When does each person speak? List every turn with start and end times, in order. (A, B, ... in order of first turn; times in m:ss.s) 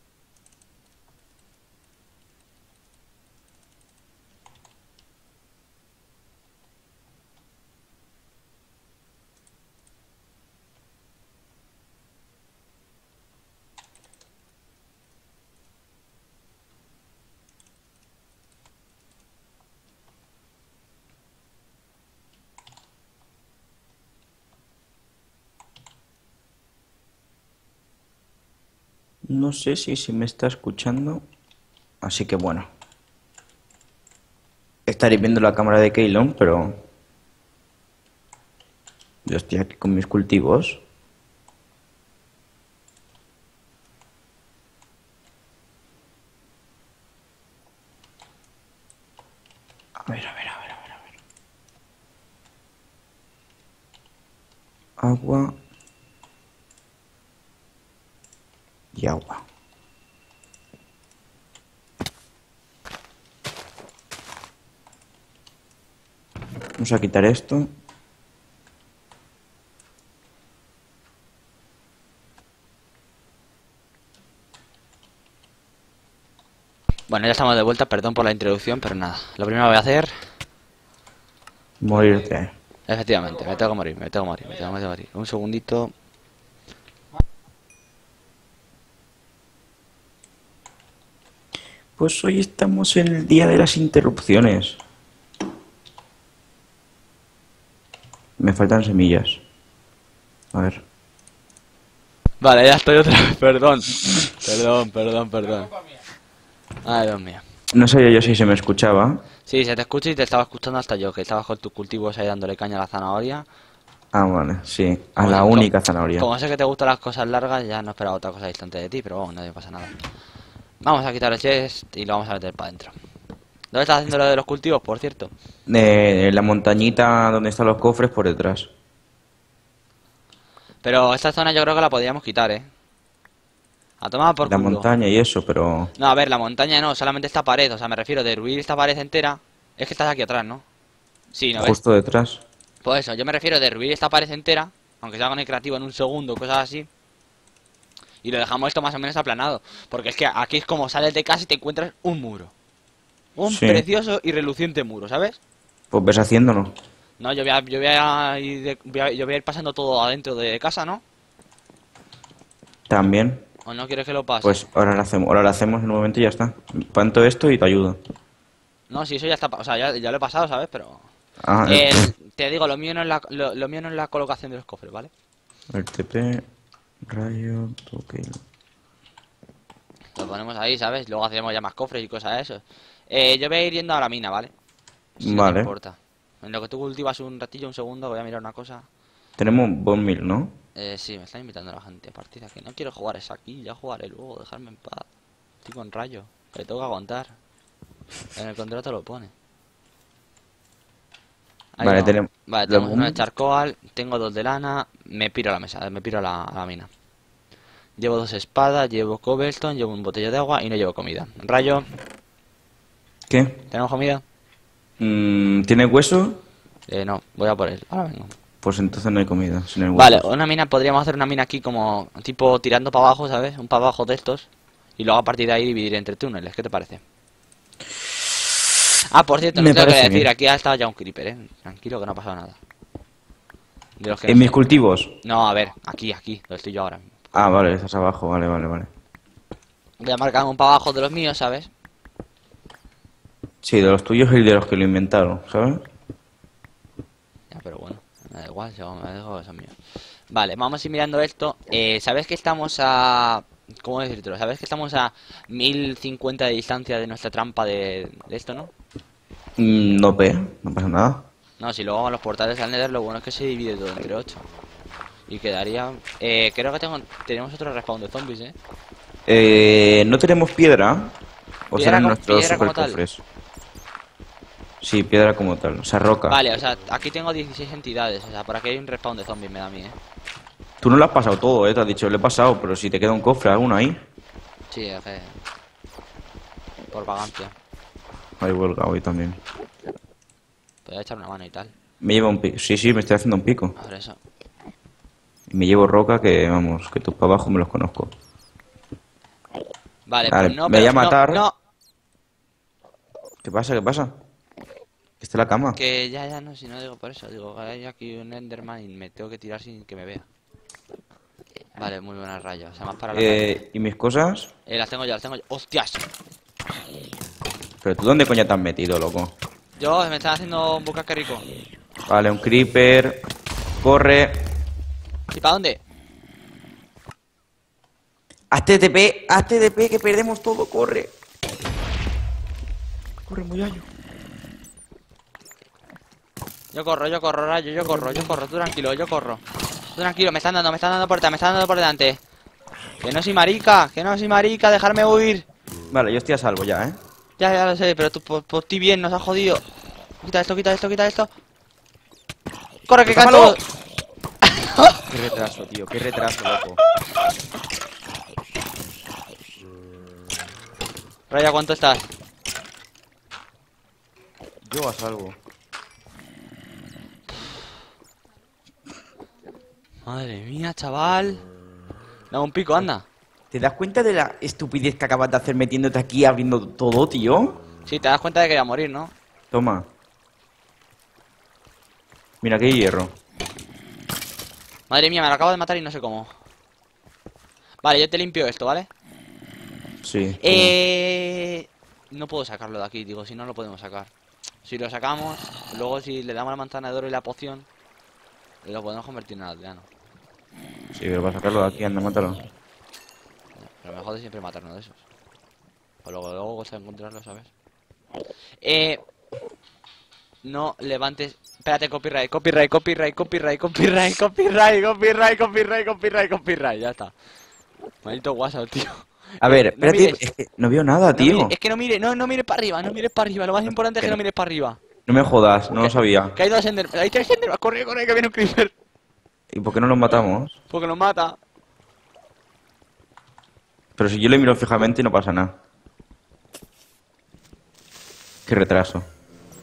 0:29.2-0:31.2 A
0:32.0-0:32.7 A
0:34.8-0:36.8 A
0:39.2-0:40.8 A
0:50.0-0:51.0 A
0:55.0-0:55.5 A
0:58.9-0:59.4 A
1:06.8-1:07.7 A
1:17.1-1:20.1 B
1:21.8-1:22.5 A
1:22.9-1:25.9 B
1:32.0-1:34.8 A
1:38.4-1:39.4 A
1:40.5-1:40.8 A
1:42.4-1:45.7 B
1:46.8-1:47.4 B
1:47.7-1:49.2 A
1:49.5-1:53.4 B
1:54.1-1:56.3 A
1:55.2-1:59.9 B
2:00.8-2:02.9 B
2:03.7-2:05.3 B
2:05.7-2:08.7 A
2:10.8-2:12.7 B
2:14.0-2:14.8 B
2:14.4-2:15.9 A
2:16.0-2:20.6 B
2:21.3-2:21.8 B
2:21.6-2:22.4 A
2:22.8-2:26.9 B
2:28.2-2:32.5 B
2:33.3-2:35.4 B
2:33.5-2:33.8 A
2:35.9-2:36.8 A
2:37.2-2:41.0 B
2:42.9-2:43.4 A
2:43.6-2:44.7 B
2:44.4-2:48.0 A
2:48.9-2:51.0 B
2:51.4-2:52.1 A
2:51.6-2:55.1 B
2:55.7-2:56.4 A
2:57.0-2:58.4 A
3:00.2-3:04.5 B
3:05.2-3:08.9 B
3:05.2-3:05.7 A
3:09.4-3:10.5 A
3:10.7-3:15.1 B
3:15.6-3:17.3 B
3:18.3-3:19.3 B
3:21.8-3:26.9 B
3:21.8-3:23.2 A
3:28.0-3:31.8 B
3:33.3-3:33.6 A
3:33.7-3:34.2 B
3:35.0-3:36.4 A
3:36.9-3:38.4 B
3:38.6-3:40.2 A
3:39.9-3:47.0 B
3:49.1-3:52.6 B
3:49.5-3:50.3 A
3:54.0-3:54.6 B
3:54.2-3:55.1 A
3:55.2-3:57.2 B
3:57.3-3:58.9 A
4:00.0-4:01.7 B
4:03.6-4:05.8 A
4:07.5-4:09.8 B
4:10.3-4:18.7 B
4:19.6-4:21.3 A
4:21.6-4:24.4 B
4:25.3-4:28.5 B
4:29.2-4:31.1 A
4:31.7-4:33.2 A
4:31.7-4:33.0 B
4:34.8-4:36.4 A
4:36.3-4:40.0 B
4:40.8-4:44.0 A
4:44.7-4:45.4 B
4:46.9-4:47.5 B
4:48.4-4:49.4 A
4:50.8-4:51.7 B
4:52.0-4:53.7 A
4:53.8-4:54.2 B
4:55.5-4:58.1 A
5:00.1-5:01.5 B
5:00.3-5:01.4 A
5:03.4-5:04.2 A
5:05.2-5:05.8 A
5:05.7-5:10.2 B
5:11.7-5:13.6 B
5:13.1-5:14.5 A
5:14.6-5:16.0 B
5:17.8-5:19.3 A
5:19.8-5:21.4 B
5:22.1-5:23.2 A
5:23.8-5:24.5 A
5:25.3-5:25.8 B
5:28.5-5:31.1 A
5:33.2-5:33.9 A
5:36.7-5:39.4 B
5:39.9-5:42.2 B
5:43.0-5:45.4 B
5:45.9-5:47.0 A
5:47.4-5:49.6 B
5:50.2-5:51.3 B
5:52.9-5:53.6 B
5:53.1-5:53.6 A
5:54.5-5:55.0 B
5:55.1-5:56.8 A
6:01.3-6:02.1 B
6:04.6-6:05.4 A
6:10.0-6:11.4 B
6:12.3-6:13.0 B
6:13.5-6:17.6 A
6:17.9-6:19.1 B
6:19.5-6:19.9 A
6:22.4-6:23.1 A
6:24.9-6:26.3 B
6:27.8-6:28.9 B
6:30.0-6:30.7 A
6:30.4-6:34.1 B
6:34.6-6:37.7 B
6:38.6-6:39.9 B
6:40.9-6:42.4 A
6:43.6-6:45.0 B
6:46.0-6:47.5 B
6:48.6-6:49.0 B
6:50.4-6:57.1 B
6:58.0-7:00.2 B
6:59.4-7:01.5 A
7:01.2-7:04.8 B
7:05.1-7:06.4 A
7:05.8-7:08.7 B
7:09.5-7:10.6 A
7:10.7-7:11.4 B
7:14.0-7:15.5 A
7:18.4-7:19.0 A